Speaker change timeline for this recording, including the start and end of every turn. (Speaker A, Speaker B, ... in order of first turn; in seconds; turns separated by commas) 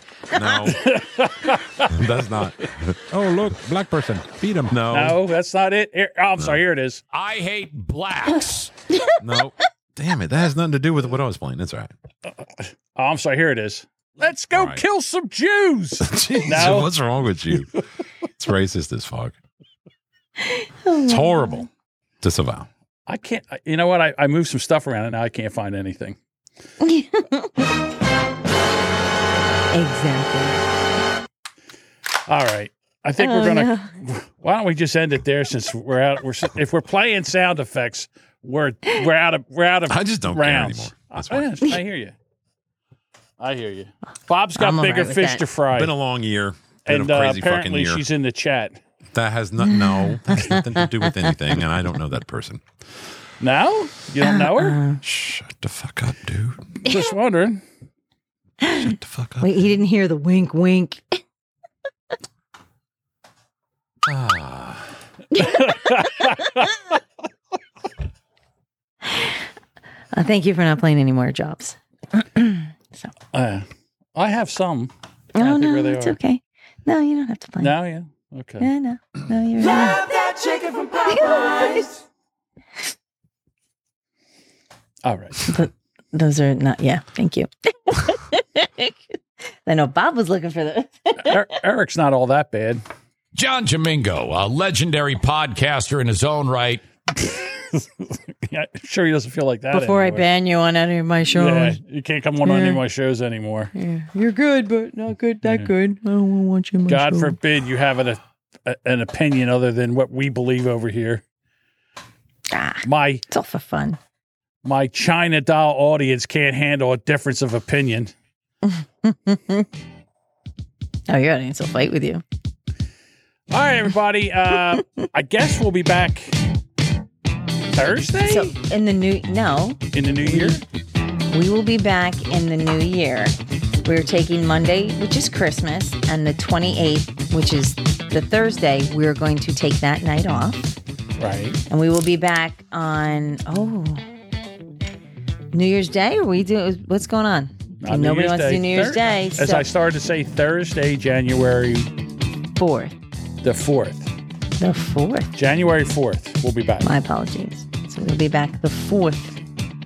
Speaker A: 0.3-0.9, Speaker B: 0.7-1.9, Speaker A: 1.9-5.2, Speaker B: 4.9-7.0, Speaker C: 7.1-8.7, Speaker A: 9.2-11.9, Speaker B: 12.6-16.9, Speaker A: 14.5-14.8, Speaker A: 16.0-17.7, Speaker A: 18.4-19.4, Speaker D: 20.4-21.7, Speaker A: 21.1-21.7, Speaker A: 22.2-22.7, Speaker B: 23.1-26.2, Speaker D: 26.8-27.5, Speaker D: 29.7-30.6, Speaker B: 32.3-42.1, Speaker D: 33.2-33.9, Speaker A: 39.9-41.5, Speaker B: 43.4-45.9, Speaker D: 44.6-45.4, Speaker A: 45.7-48.0, Speaker B: 46.9-48.8, Speaker A: 49.1-52.6, Speaker D: 49.6-50.6, Speaker B: 53.4-54.8, Speaker D: 54.2-55.0, Speaker A: 55.0-56.6, Speaker B: 56.8-57.6, Speaker A: 58.7-59.5, Speaker D: 59.4-61.2, Speaker A: 64.1-64.8, Speaker B: 65.4-66.7, Speaker D: 70.1-73.1, Speaker B: 73.3-76.2, Speaker D: 75.4-77.8, Speaker B: 77.6-78.7, Speaker D: 78.6-80.4, Speaker D: 81.1-81.9, Speaker B: 85.0-85.5, Speaker D: 85.5-88.9, Speaker D: 89.7-91.4, Speaker B: 91.2-92.8, Speaker C: 93.3-96.8, Speaker B: 97.2-100.3, Speaker D: 99.7-101.8, Speaker B: 101.3-103.7, Speaker D: 102.4-102.8, Speaker D: 103.7-107.4, Speaker B: 105.4-105.7, Speaker B: 106.9-111.2, Speaker D: 112.5-114.0, Speaker B: 112.8-113.2, Speaker B: 114.6-118.1, Speaker D: 118.7-119.7, Speaker D: 121.1-122.2, Speaker B: 123.5-126.4, Speaker B: 127.8-128.5, Speaker D: 128.3-130.6, Speaker B: 129.9-130.6, Speaker D: 131.3-140.8, Speaker B: 141.2-141.6, Speaker D: 141.7-144.1, Speaker D: 145.5-149.7, Speaker B: 147.8-151.9, Speaker D: 152.6-153.0, Speaker B: 153.4-154.1, Speaker D: 154.6-155.3, Speaker B: 155.4-156.9, Speaker D: 156.8-159.4